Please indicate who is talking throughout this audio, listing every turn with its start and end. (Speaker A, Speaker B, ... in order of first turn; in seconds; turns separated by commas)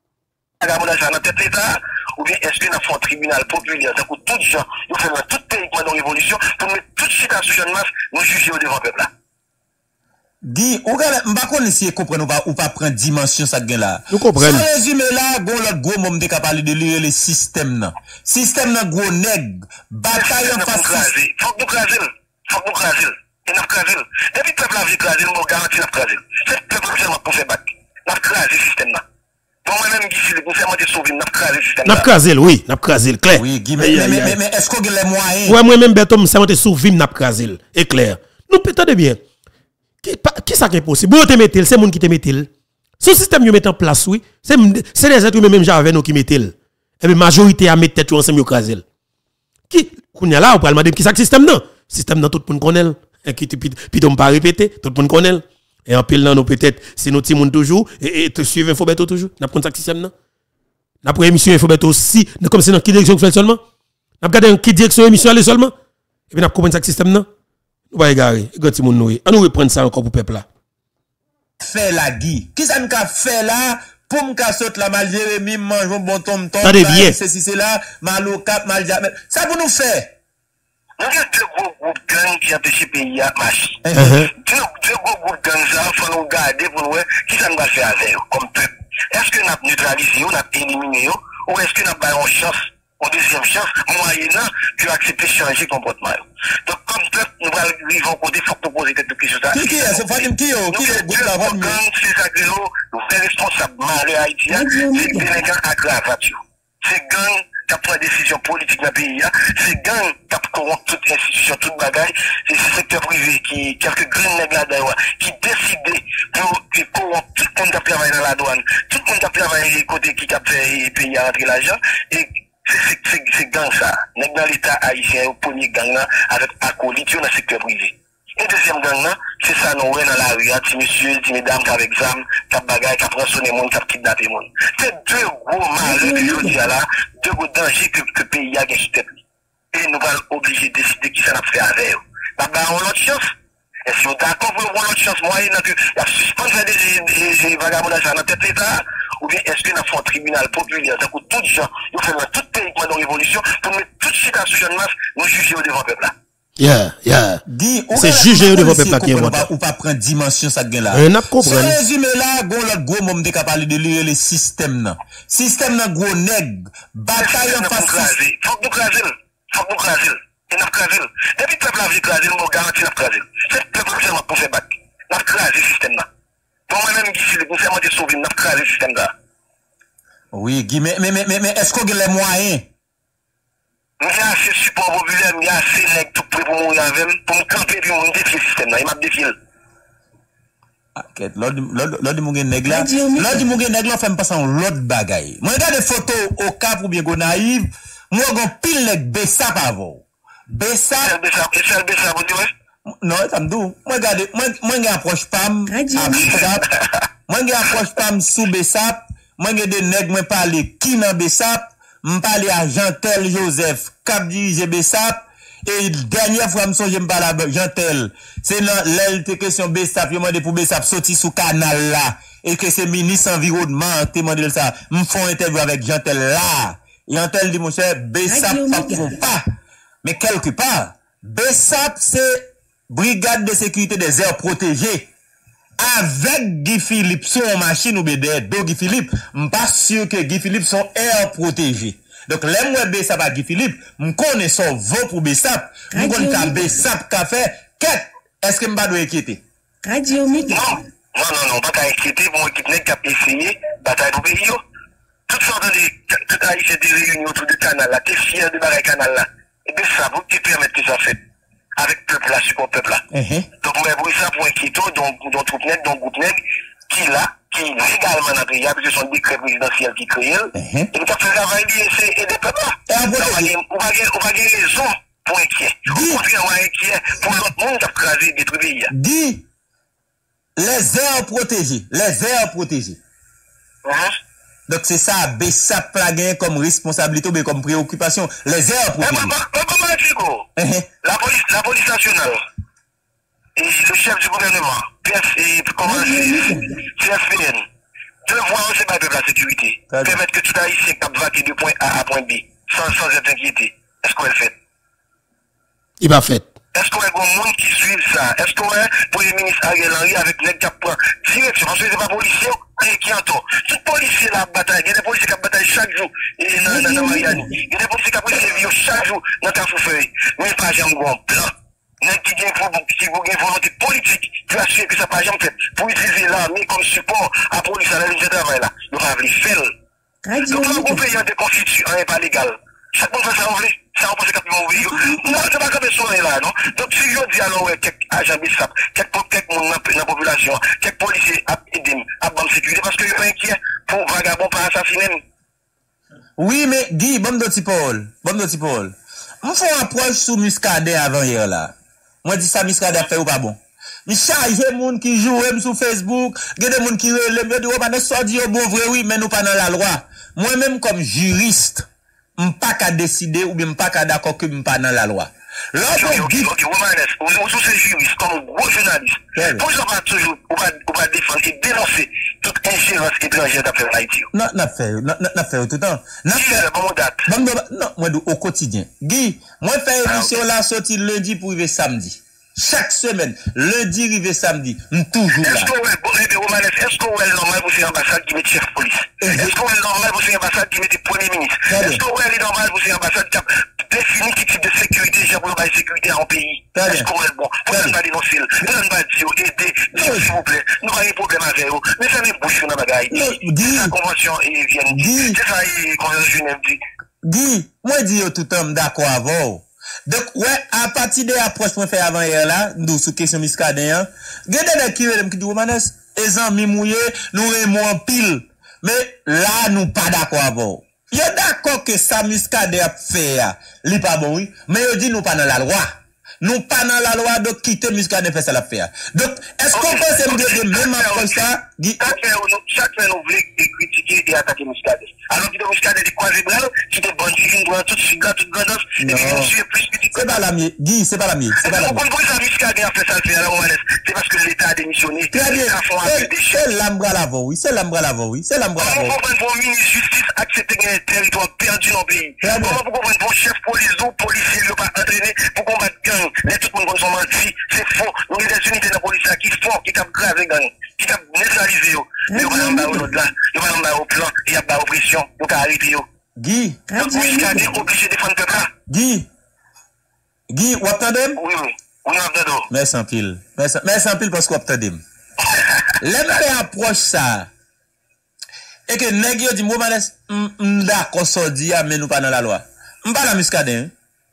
Speaker A: 0.6-9.1, Speaker B: 10.4-21.1, Speaker C: 14.1-14.7, Speaker A: 20.1-29.0, Speaker A: 29.6-32.1, Speaker C: 31.8-34.4, Speaker B: 33.3-35.6, Speaker C: 35.5-39.2, Speaker C: 40.0-42.5, Speaker C: 43.0-48.8, Speaker C: 49.7-60.1, Speaker C: 61.0-63.6, Speaker C: 64.2-65.7, Speaker C: 66.3-67.3, Speaker C: 67.9-70.5, Speaker B: 71.6-80.1, Speaker C: 76.6-77.2, Speaker A: 81.0-139.2, Speaker C: 83.9-84.3, Speaker B: 99.5-101.8, Speaker D: 104.5-105.4, Speaker D: 135.8-136.7, Speaker A: 139.7-143.3, Speaker A: 143.8-156.1, Speaker C: 156.6-157.4, Speaker B: 157.5-168.1, Speaker C: 157.9-159.5, Speaker C: 160.9-161.8, Speaker A: 167.2-176.1, Speaker A: 176.7-179.1, Speaker B: 180.3-182.7, Speaker A: 184.0-189.3, Speaker B: 190.9-201.1, Speaker D: 192.7-193.5, Speaker A: 201.0-202.5, Speaker B: 203.0-206.7, Speaker D: 205.7-206.4, Speaker B: 207.3-229.4, Speaker D: 228.2-229.2, Speaker B: 230.0-235.1, Speaker B: 235.8-249.4, Speaker D: 245.9-246.8, Speaker D: 249.8-250.8, Speaker A: 250.5-254.6, Speaker A: 255.3-261.2, Speaker A: 261.8-263.0, Speaker B: 263.1-263.5, Speaker A: 263.6-266.4, Speaker A: 266.9-278.9, Speaker B: 270.5-270.9, Speaker B: 272.9-273.5, Speaker B: 275.9-276.2, Speaker B: 278.9-279.4, Speaker B: 280.6-283.0, Speaker A: 283.8-284.1, Speaker B: 284.7-289.3, Speaker A: 289.0-290.4, Speaker B: 290.6-290.9, Speaker A: 291.0-292.4, Speaker A: 293.6-297.6, Speaker D: 295.8-296.8, Speaker A: 298.2-304.5, Speaker B: 299.9-300.2, Speaker C: 306.0-306.5, Speaker A: 306.7-329.7, Speaker D: 316.7-317.5, Speaker D: 330.2-331.1, Speaker A: 330.5-345.2, Speaker D: 334.9-335.2, Speaker B: 346.4-351.7, Speaker B: 352.2-361.9, Speaker B: 362.4-366.5, Speaker A: 365.9-374.3, Speaker B: 369.4-369.6, Speaker B: 374.3-376.6, Speaker A: 376.3-377.3, Speaker B: 377.3-385.7, Speaker A: 380.0-380.3, Speaker A: 385.4-406.8, Speaker B: 389.2-389.5, Speaker B: 391.7-392.0, Speaker B: 396.7-397.1, Speaker B: 397.7-397.9, Speaker B: 399.9-400.3, Speaker B: 403.1-403.9, Speaker B: 404.9-405.4, Speaker B: 407.2-432.1, Speaker A: 429.7-431.5, Speaker A: 432.0-440.4, Speaker B: 439.0-439.5, Speaker B: 440.1-442.0, Speaker A: 441.6-446.6, Speaker B: 445.3-449.1, Speaker A: 448.8-466.0, Speaker B: 452.4-452.8, Speaker D: 462.3-463.1, Speaker B: 466.4-466.8, Speaker D: 466.9-467.8, Speaker A: 467.0-468.7, Speaker B: 468.9-469.3, Speaker B: 470.5-471.4, Speaker A: 471.4-472.7, Speaker B: 472.7-475.0, Speaker A: 475.4-476.4, Speaker B: 476.0-477.5, Speaker B: 478.9-483.9